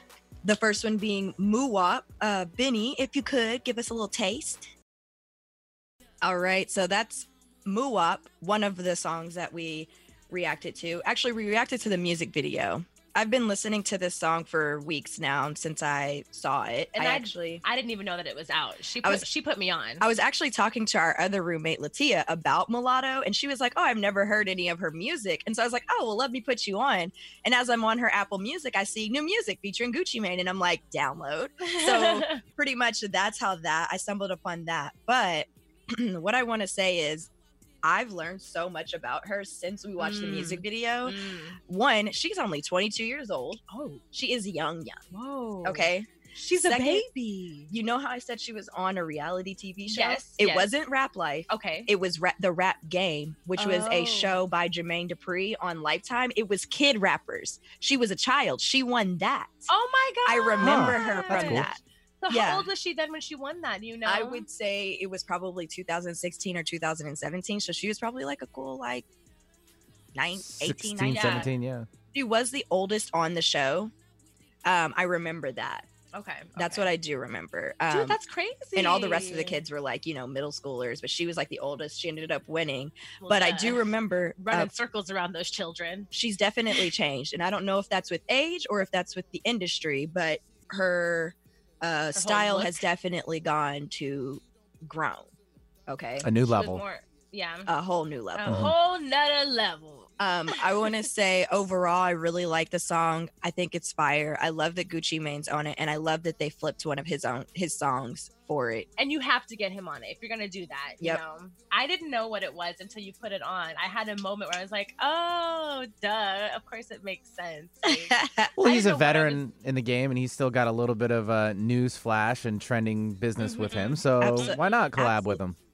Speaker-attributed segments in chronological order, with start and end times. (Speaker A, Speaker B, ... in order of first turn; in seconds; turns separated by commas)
Speaker A: 0.4-4.7, Speaker A: 6.2-17.6, Speaker B: 17.0-20.1, Speaker A: 20.0-37.3, Speaker B: 31.6-32.4, Speaker A: 37.8-43.6, Speaker B: 40.0-41.6, Speaker B: 43.7-44.0, Speaker A: 44.1-45.0, Speaker B: 45.1-47.7, Speaker A: 45.6-46.1, Speaker A: 46.6-47.1, Speaker A: 47.7-59.7, Speaker B: 49.9-50.7, Speaker B: 51.5-51.9, Speaker B: 53.6-54.4, Speaker B: 59.7-61.6, Speaker A: 60.2-62.7, Speaker C: 60.6-61.7, Speaker B: 62.2-64.5, Speaker A: 64.0-69.1, Speaker A: 70.1-71.5, Speaker C: 70.4-71.9, Speaker B: 71.1-71.5, Speaker A: 72.1-73.9, Speaker A: 74.6-75.9, Speaker B: 76.1-76.9, Speaker A: 76.5-78.2, Speaker B: 77.9-79.6, Speaker A: 78.7-84.7, Speaker B: 83.2-83.8, Speaker B: 84.4-86.1, Speaker A: 86.1-95.3, Speaker B: 92.1-92.8, Speaker A: 95.9-96.3, Speaker C: 96.2-96.8, Speaker B: 96.4-97.7, Speaker A: 97.7-98.7, Speaker B: 98.3-100.1, Speaker C: 98.5-98.7, Speaker A: 100.2-108.9, Speaker B: 109.0-119.4, Speaker A: 117.8-118.5, Speaker C: 118.6-125.6, Speaker B: 123.4-125.2, Speaker A: 124.2-125.4